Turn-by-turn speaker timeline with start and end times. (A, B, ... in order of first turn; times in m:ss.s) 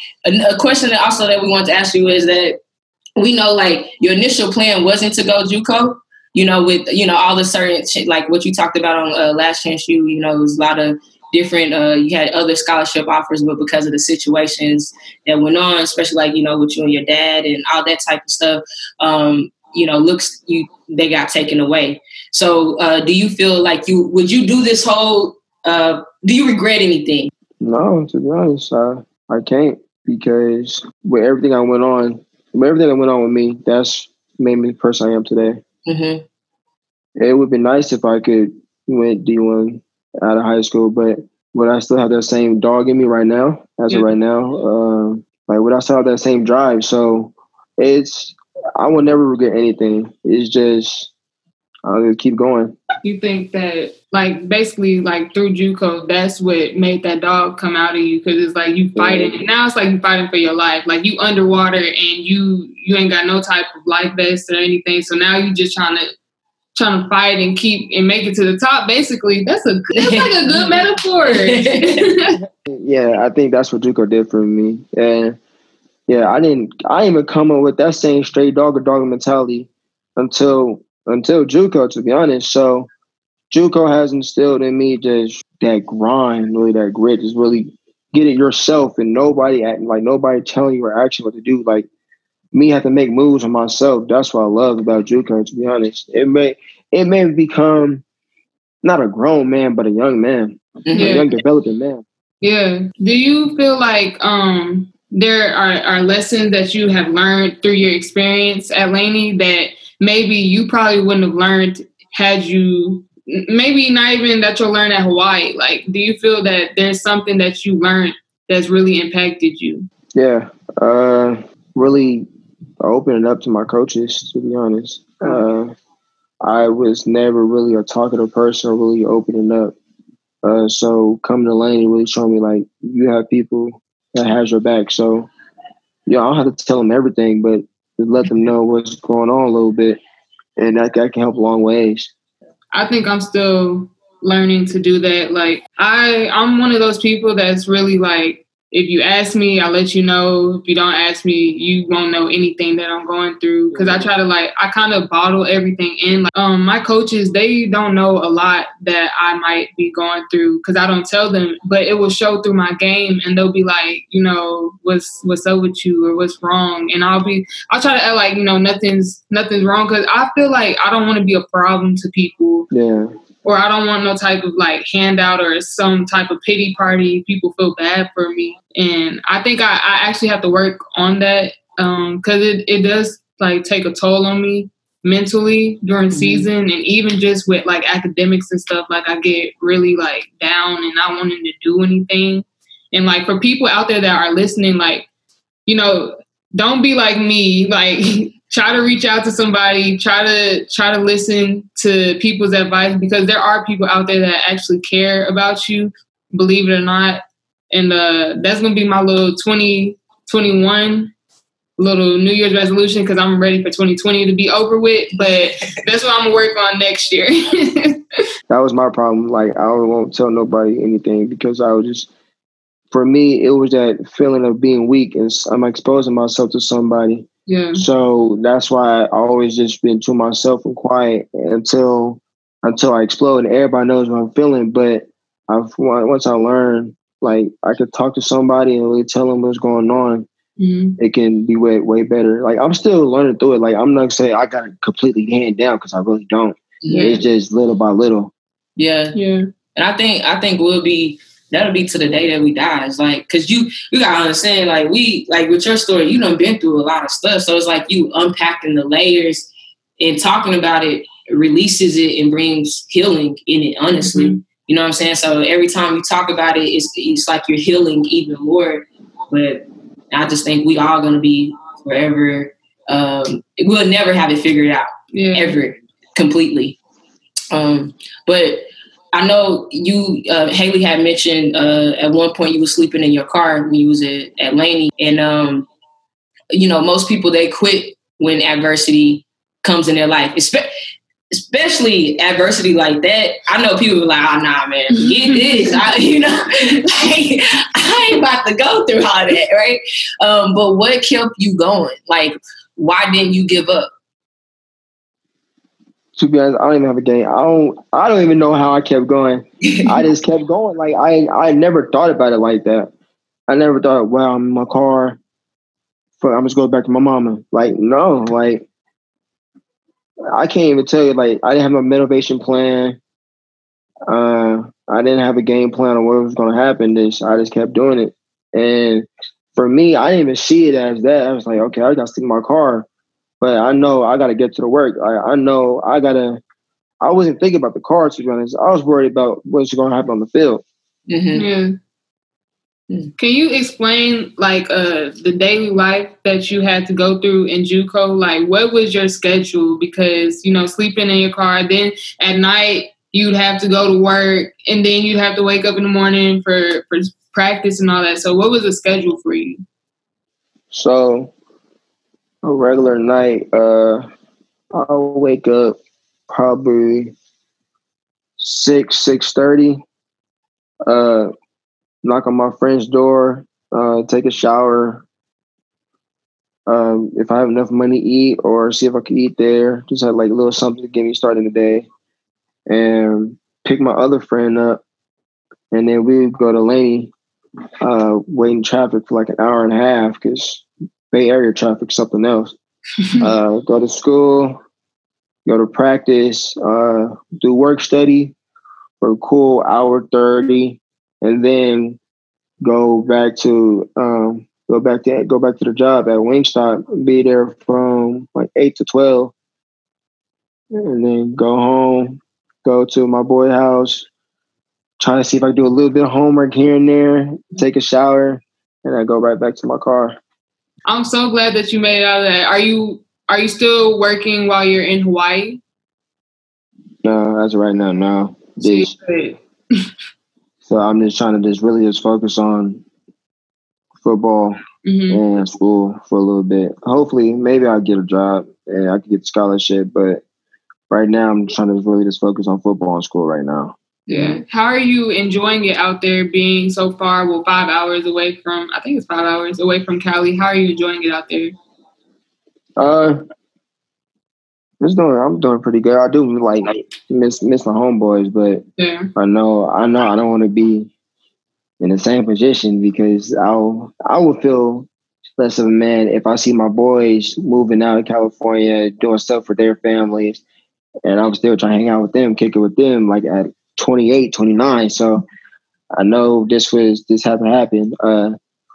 0:00.2-0:02.6 A
0:03.2-0:27.3 A
0:27.6-0:35.6 B
0:35.9-0:36.2 A
0:37.2-0:51.1 B
0:51.8-0:52.8 B
0:53.0-1:06.1 C
0:59.0-0:59.4 B
1:06.7-1:12.4 C
1:09.9-1:12.1 A
1:12.7-1:15.4 B
1:16.1-1:22.9 B
1:23.5-1:31.9 B
1:32.5-1:38.0 B
1:38.8-1:42.0 B
1:40.8-1:41.3 A
1:40.9-1:41.2 C
1:42.4-1:59.9 C
2:00.1-2:02.3 B
2:02.8-2:05.7 B
2:06.4-2:09.7 B
2:10.4-2:15.3 B
2:16.0-2:20.0 B
2:20.6-2:22.1 B
2:22.7-2:52.7 C
2:33.7-2:34.1 B
2:52.7-2:53.1 B
2:53.4-3:15.0 C
3:06.1-3:06.5 A
3:15.7-3:31.1 C
3:31.8-3:38.0 C
3:38.5-3:42.1 B
3:42.9-4:00.3 B
3:47.5-3:47.8 C
4:00.6-4:01.0 C
4:01.0-4:08.3 B
4:06.8-4:07.2 A
4:06.9-4:07.2 C
4:08.8-4:09.2 A
4:09.1-4:09.4 C
4:09.7-4:36.8 A
4:24.0-4:24.4 C
4:35.1-4:35.6 C
4:37.5-4:45.7 A
4:46.5-4:50.7 A
4:51.3-5:03.9 A
4:54.9-4:55.8 C
5:06.2-5:12.9 B
5:09.6-5:09.9 A
5:13.5-5:15.2 B
5:16.2-5:18.6 B
5:20.3-5:23.0 B
5:24.1-5:32.9 B
5:33.4-5:36.4 B
5:37.0-5:40.6 B
5:41.1-5:41.4 A
5:41.4-5:41.8 C
5:43.2-5:59.6 C
6:00.7-6:01.3 B
6:02.4-6:04.0 B
6:04.7-6:05.8 B
6:06.3-6:07.1 B
6:08.4-6:09.8 B
6:10.8-6:11.3 B
6:12.0-6:15.0 B
6:16.7-6:21.8 B
6:22.7-6:24.8 B
6:25.7-6:27.1 B
6:27.8-6:32.5 B
6:33.0-6:33.3 C
6:33.2-6:34.6 B
6:35.4-6:38.3 B
6:39.0-6:42.0 B
6:42.6-6:49.3 B
6:50.7-6:54.1 B
6:55.0-7:00.2 B
7:00.9-7:05.6 C
7:07.0-7:08.9 B
7:08.6-7:09.4 C
7:10.6-7:12.8 B
7:14.0-7:20.2 B
7:14.8-7:15.2 C
7:20.9-7:23.8 B
7:24.1-7:24.4 A
7:24.1-7:31.5 C
7:32.8-7:33.2 B
7:34.8-7:38.6 B
7:38.8-7:39.1 C
7:39.2-7:40.9 B
7:41.8-7:50.4 B
7:51.0-7:55.2 B
7:56.0-7:58.3 B